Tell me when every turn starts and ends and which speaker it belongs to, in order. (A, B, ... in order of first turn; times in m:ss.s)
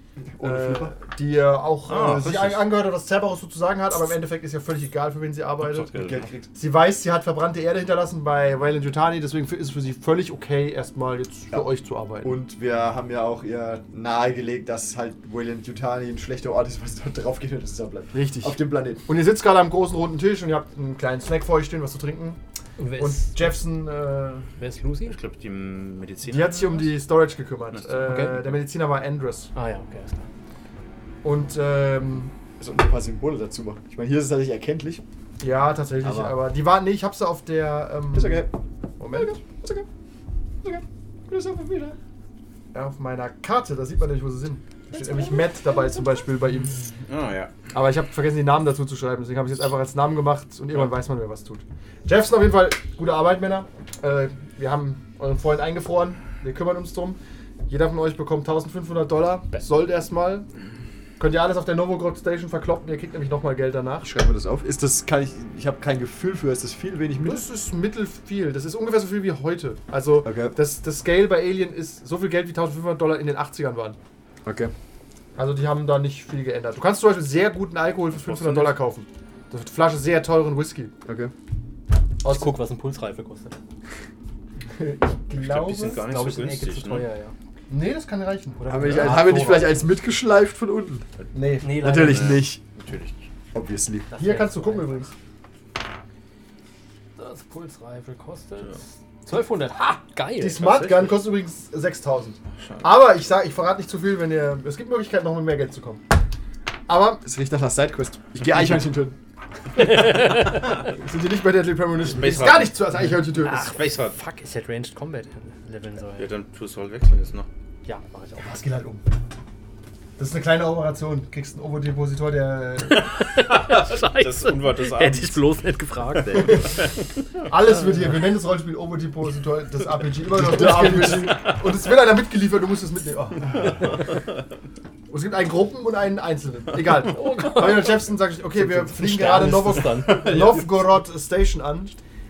0:00.2-0:01.0 A
0:00.4-0:06.0 B
0:01.8-0:02.7 C
0:05.6-0:06.3 C
0:05.9-0:06.5 A
0:06.5-0:12.4 B
0:12.2-0:19.0 A
0:18.1-0:22.4 B
0:22.8-0:23.6 D
0:23.0-0:24.5 B
0:24.6-0:25.2 D
0:25.1-0:26.9 C
0:26.2-0:29.5 B
0:27.7-0:28.2 C
0:28.1-0:28.4 D
0:29.5-0:30.2 D
0:31.2-0:32.3 B
0:32.6-0:35.0 A
0:35.4-0:39.4 B
0:36.0-0:36.4 A
0:38.1-0:38.5 A
0:39.1-0:39.8 A
0:40.6-0:42.0 A
0:42.7-0:46.8 B
0:44.9-0:46.1 A
0:47.0-0:47.5 C
0:47.7-1:00.5 B
1:01.2-1:04.1 B
1:04.0-1:07.4 A
1:07.2-1:14.0 B
1:10.2-1:10.6 A
1:14.4-1:14.7 A
1:15.4-1:20.9 B
1:18.1-1:18.8 C
1:21.0-1:21.3 A
1:22.2-1:22.5 B
1:22.2-1:23.6 D
1:24.7-1:26.0 B
1:25.3-1:27.0 C
1:25.9-1:27.3 D
1:27.7-1:29.9 B
1:28.6-1:31.1 A
1:28.8-1:29.3 C
1:29.2-1:29.5 D
1:31.3-1:32.1 B
1:31.6-1:32.4 D
1:31.6-1:32.6 A
1:32.0-1:33.3 C
1:33.5-1:34.1 A
1:34.1-1:34.9 D
1:34.1-1:35.1 B
1:37.2-1:40.8 D
1:40.4-1:46.0 B
1:40.6-1:41.2 C
1:46.9-1:47.2 B
1:47.2-1:49.2 A
1:49.8-1:50.8 D
1:50.4-1:53.7 B
1:52.0-1:54.2 C
1:53.4-1:56.3 D
1:56.2-1:57.5 C
1:57.8-1:58.6 D
1:58.4-1:59.0 B
2:00.2-2:03.1 B
2:03.0-2:06.8 D
2:03.0-2:05.4 C
2:06.1-2:06.9 C
2:07.5-2:13.9 B
2:10.3-2:11.5 A
2:11.0-2:11.6 D
2:15.1-2:22.0 B
2:17.1-2:18.0 D
2:18.6-2:20.8 D